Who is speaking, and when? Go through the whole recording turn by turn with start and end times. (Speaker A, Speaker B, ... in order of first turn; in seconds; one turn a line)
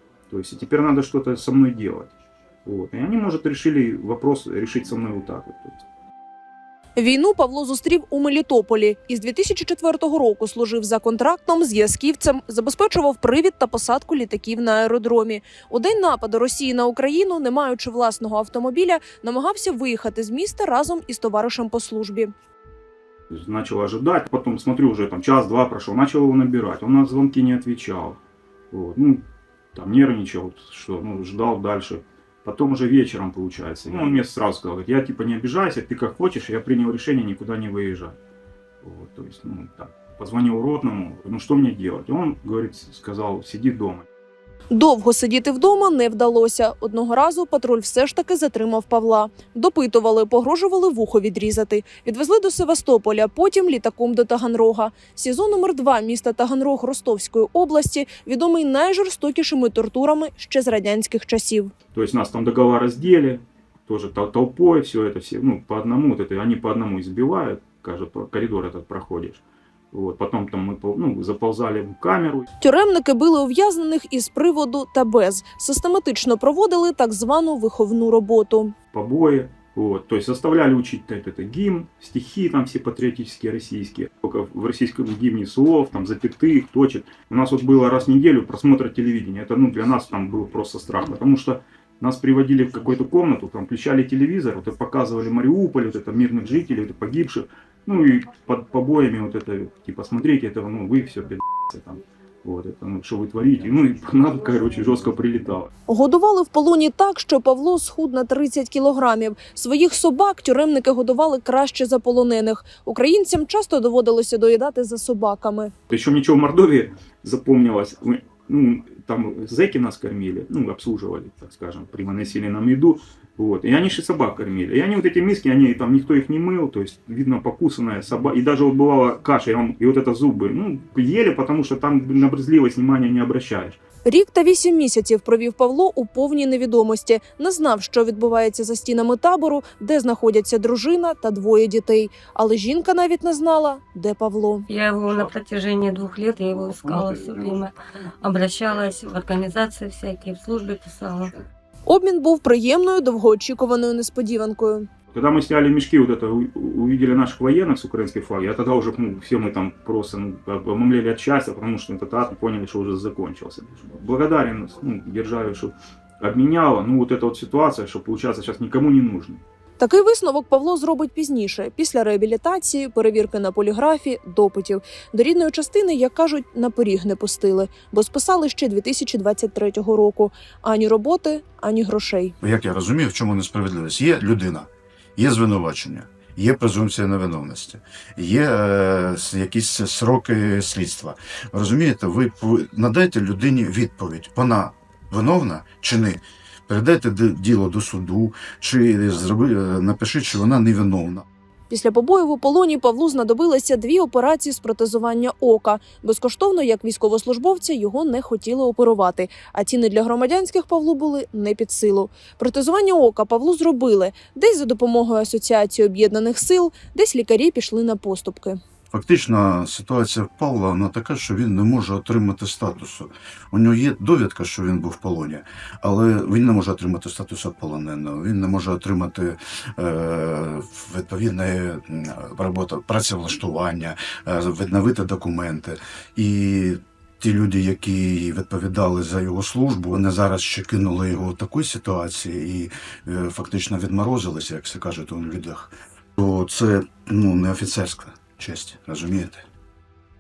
Speaker A: 0.3-2.1
Speaker A: 2.6-5.8
Speaker B: 7.0-22.3
Speaker A: 23.3-28.2
Speaker A: 28.7-38.2
Speaker A: 38.8-44.0
Speaker B: 44.7-61.7
Speaker A: 61.9-72.5
Speaker B: 72.6-78.8
Speaker A: 78.9-105.7
Speaker B: 105.9-115.7
Speaker A: 115.9-133.8
Speaker B: 134.1-144.7
Speaker C: 144.7-151.4
Speaker B: 151.9-154.9
Speaker A: 155.1-169.4
Speaker B: 169.8-182.3
Speaker D: 182.4-201.2
Speaker B: 201.7-218.6
Speaker D: 218.9-249.4